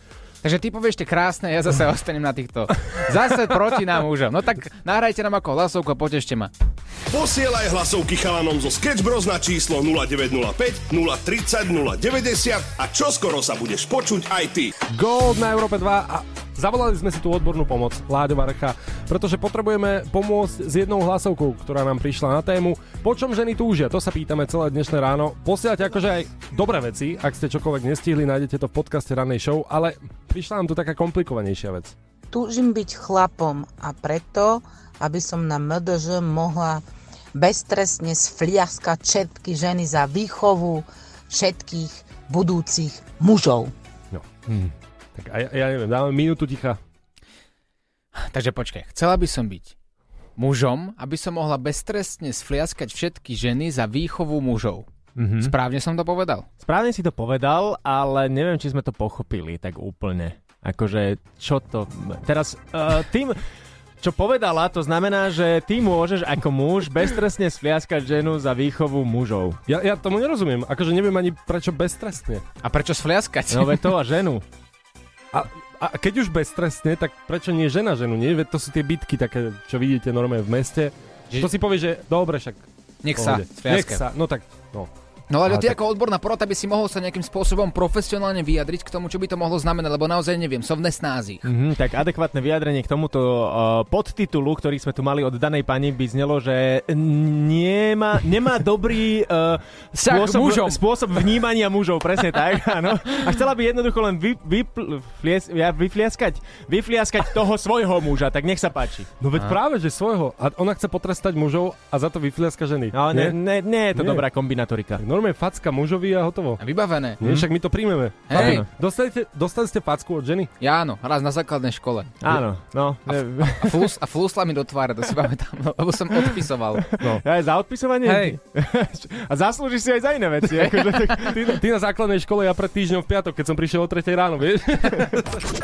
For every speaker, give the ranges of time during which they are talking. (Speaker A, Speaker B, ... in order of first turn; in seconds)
Speaker A: 0.4-6.5, 48.1-49.7, 50.4-54.9, 55.4-56.5, 72.6-73.9, 83.0-84.0, 85.3-91.4, 99.9-100.8, 116.6-117.2, 118.3-118.6, 120.6-122.2, 123.1-126.8, 128.0-128.4, 130.5-131.2
Speaker B: 7.1-14.8
Speaker C: 14.9-31.9, 45.1-46.8, 69.7-72.4, 75.3-84.9, 85.5-85.8, 109.2-113.4, 113.9-114.2, 115.0-116.6, 117.2-120.5, 131.3-135.4
Speaker D: 32.3-43.7
Speaker E: 44.5-44.7, 55.1-55.5, 56.6-63.4, 64.0-69.6, 73.5-74.4, 91.4-109.1, 112.9-115.0, 117.2-117.5, 118.3-118.7, 122.2-123.9, 126.9-131.6